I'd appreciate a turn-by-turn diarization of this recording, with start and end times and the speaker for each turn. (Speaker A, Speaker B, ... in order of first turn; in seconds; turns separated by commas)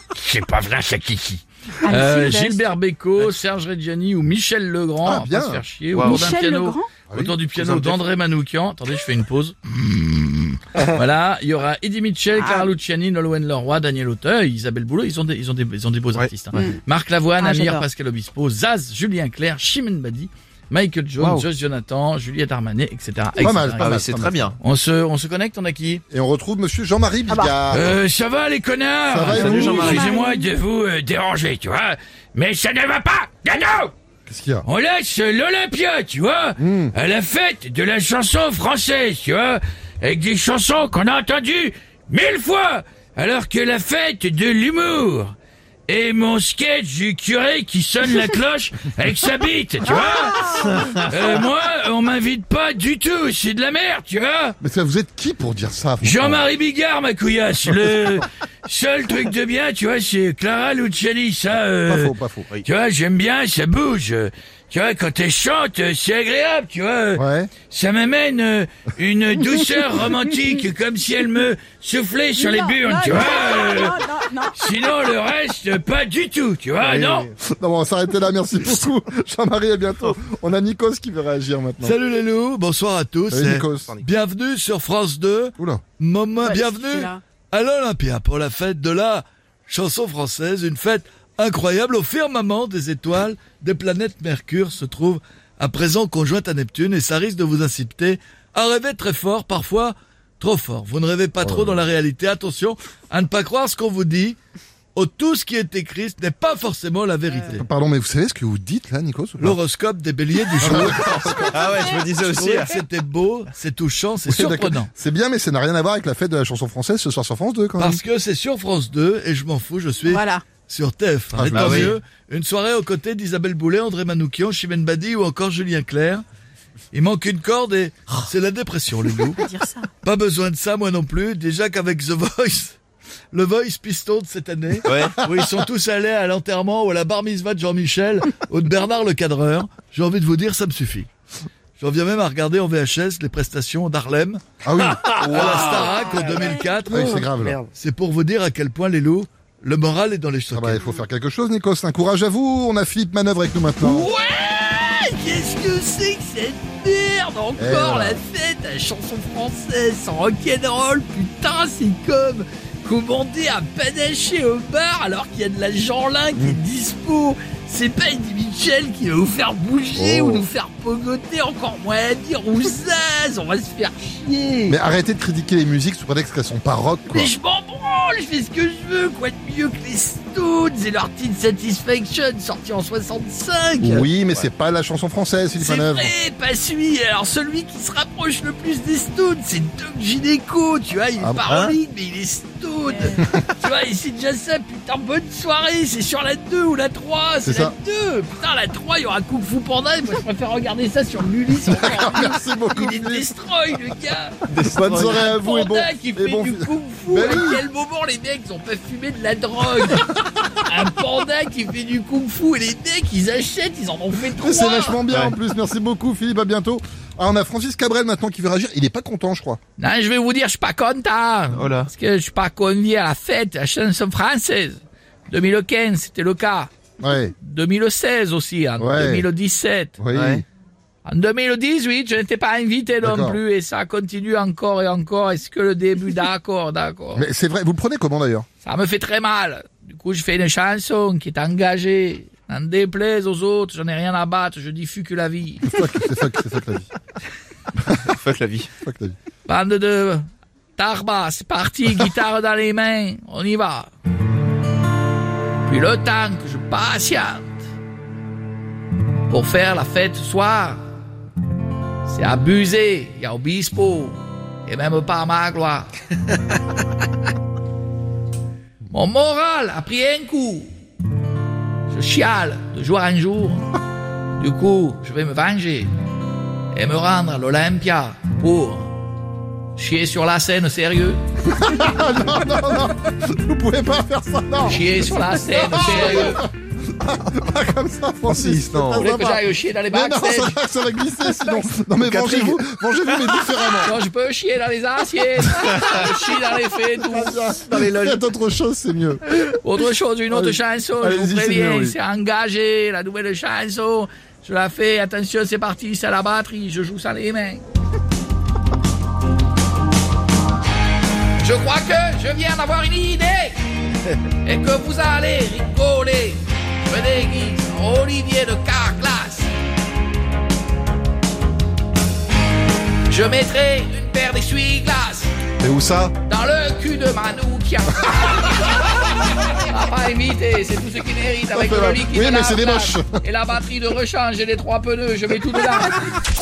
Speaker A: 0.2-24.0, Speaker B: 1.8-2.7, Speaker C: 5.0-5.6, Speaker D: 5.9-6.3, Speaker B: 6.0-6.9, Speaker C: 7.1-7.5, Speaker D: 7.6-8.0, Speaker B: 12.3-12.7, Speaker B: 17.4-17.8, Speaker D: 21.2-21.4, Speaker C: 23.4-24.4, Speaker D: 23.8-24.6, Speaker A: 24.6-26.0, Speaker C: 26.1-28.0, Speaker B: 27.3-27.6, Speaker A: 27.7-33.9, Speaker C: 29.1-30.1, Speaker B: 29.3-30.6, Speaker D: 29.4-30.1, Speaker E: 29.5-30.0, Speaker C: 34.3-34.6, Speaker A: 34.7-45.3, Speaker C: 36.6-36.9, Speaker A: 45.9-54.5, Speaker B: 49.8-50.9, Speaker C: 54.6-56.5, Speaker A: 56.0-62.1, Speaker C: 61.8-62.5, Speaker A: 62.6-74.0, Speaker C: 67.1-67.5, Speaker B: 72.3-74.8, Speaker A: 74.5-77.3, Speaker C: 76.8-82.0, Speaker E: 81.8-104.4, Speaker C: 83.3-84.0, Speaker B: 86.4-87.2, Speaker C: 101.4-101.8, Speaker E: 104.9-107.6, Speaker C: 107.5-109.6, Speaker E: 109.4-114.6, Speaker C: 110.6-111.7, Speaker D: 110.6-112.8, Speaker C: 114.3-118.0, Speaker A: 114.4-114.9, Speaker E: 117.8-126.2, Speaker B: 120.0-120.4, Speaker C: 121.3-122.0, Speaker D: 121.5-121.9, Speaker E: 126.9-129.5, Speaker B: 129.3-129.9, Speaker E: 130.0-132.8, Speaker E: 133.3-141.1, Speaker D: 134.8-135.2, Speaker E: 141.8-144.4, Speaker C: 144.6-146.2, Speaker E: 145.1-147.2, Speaker A: 145.2-145.6, Speaker B: 146.1-146.6, Speaker C: 146.8-147.6, Speaker D: 146.9-147.7, Speaker E: 147.7-150.8, Speaker C: 150.5-154.1, Speaker A: 153.8-174.8, Speaker C: 157.6-158.2, Speaker C: 169.9-170.5, Speaker C: 174.7-177.3, Speaker A: 177.1-184.1, Speaker C: 183.8-186.1, Speaker A: 185.6-204.3, Speaker C: 191.2-191.5, Speaker D: 191.5-191.8, Speaker B: 192.9-193.2, Speaker C: 197.4-197.7, Speaker C: 201.7-203.8, Speaker D: 204.5-205.3, Speaker C: 204.7-207.6, Speaker A: 205.2-215.0, Speaker C: 214.4-219.6, Speaker D: 215.1-215.3, Speaker A: 219.8-226.7, Speaker D: 221.5-221.9, Speaker C: 227.0-227.3, Speaker A: 227.4-229.9, Speaker C: 228.8-229.3, Speaker C: 230.0-230.4, Speaker D: 230.1-230.4, Speaker A: 231.0-237.3, Speaker C: 233.0-233.4, Speaker C: 237.1-238.4, Speaker A: 238.6-245.7, Speaker C: 245.7-246.9, Speaker D: 248.0-248.7, Speaker C: 248.8-249.2, Speaker A: 249.4-253.9, Speaker A: 255.6-257.6, Speaker A: 259.3-260.8, Speaker A: 262.0-265.9, Speaker A: 268.9-270.7, Speaker A: 271.9-273.7, Speaker A: 274.4-275.9, Speaker A: 276.7-278.9, Speaker A: 279.8-281.2, Speaker C: 281.4-293.9, Speaker A: 284.7-286.4, Speaker D: 288.3-289.1, Speaker A: 288.8-290.6, Speaker B: 291.4-291.7, Speaker D: 292.2-292.6, Speaker A: 293.8-297.5, Speaker D: 295.6-296.1, Speaker C: 297.0-299.2, Speaker D: 297.7-298.2, Speaker A: 299.3-307.6, Speaker C: 300.3-301.9, Speaker A: 311.4-313.5, Speaker A: 314.4-319.5, Speaker A: 323.1-325.3, Speaker C: 325.6-326.1, Speaker A: 326.3-336.0, Speaker C: 331.5-333.1